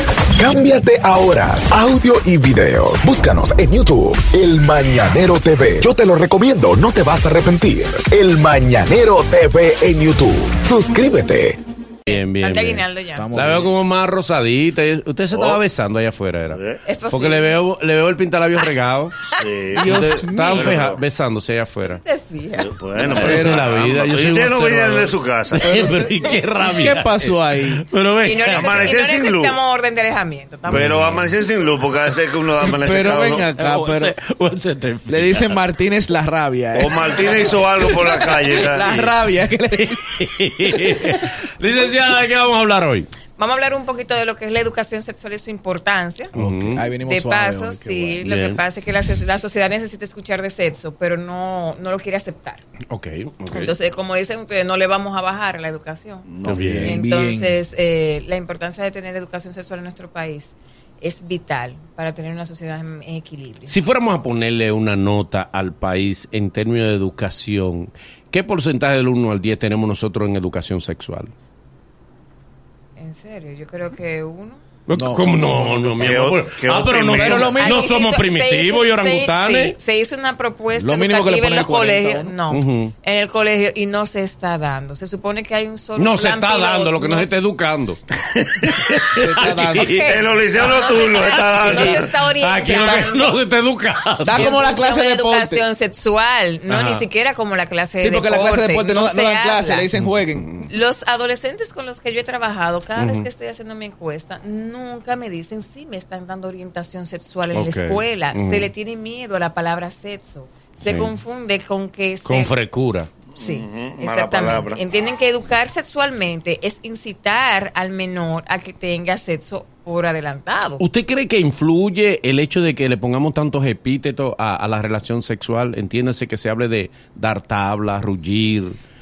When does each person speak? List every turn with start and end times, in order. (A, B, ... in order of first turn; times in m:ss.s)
0:00.3-0:11.6 A
0:12.1-0:13.3 B
0:12.1-0:19.2 C
0:13.2-0:13.7 D
0:15.3-0:15.6 E
0:16.5-0:16.8 E
0:16.8-0:17.6 B
0:19.4-0:21.0 E
0:19.7-0:20.6 D
0:19.7-0:22.0 C
0:21.8-0:23.1 B
0:22.6-0:25.8 E
0:23.0-0:28.9 C
0:23.2-0:23.6 D
0:25.7-0:27.8 D
0:28.2-0:31.1 B
0:28.5-0:29.6 E
0:30.7-0:31.3 C
0:30.7-0:33.6 E
0:32.8-0:34.1 D
0:33.5-0:35.6 C
0:35.1-0:37.3 D
0:36.7-0:39.1 E
0:37.9-0:39.1 C
0:38.7-0:39.9 D
0:39.7-0:43.1 C
0:43.4-0:46.3 B
0:46.3-0:46.9 C
0:46.4-0:48.2 D
0:46.9-0:52.6 B
0:48.2-0:48.6 C
0:52.9-0:53.7 C
0:53.5-1:03.7 B
0:56.3-0:56.9 E
0:56.4-0:57.0 C
0:56.6-0:57.6 D
1:03.7-1:11.3 C
1:13.0-1:14.6 B
1:14.9-1:19.8 C
1:14.9-1:15.9 D
1:15.9-1:17.6 E
1:17.1-1:17.9 D
1:17.5-1:27.4 B
1:20.7-1:22.4 D
1:22.5-1:22.9 C
1:26.0-1:28.0 C
1:28.3-1:29.4 E
1:29.1-1:34.6 C
1:29.2-1:30.0 D
1:29.4-1:33.4 B
1:29.9-1:32.1 E
1:34.2-1:35.6 D
1:34.3-1:39.9 B
1:36.7-1:37.0 C
1:38.0-1:40.4 D
1:39.9-1:40.7 C
1:40.6-1:52.5 B
1:43.0-1:43.3 C
1:47.5-1:48.7 C
1:50.8-1:51.1 C
1:52.2-1:53.1 C
1:53.3-1:54.8 E
1:53.4-2:00.8 B
2:00.8-2:08.8 C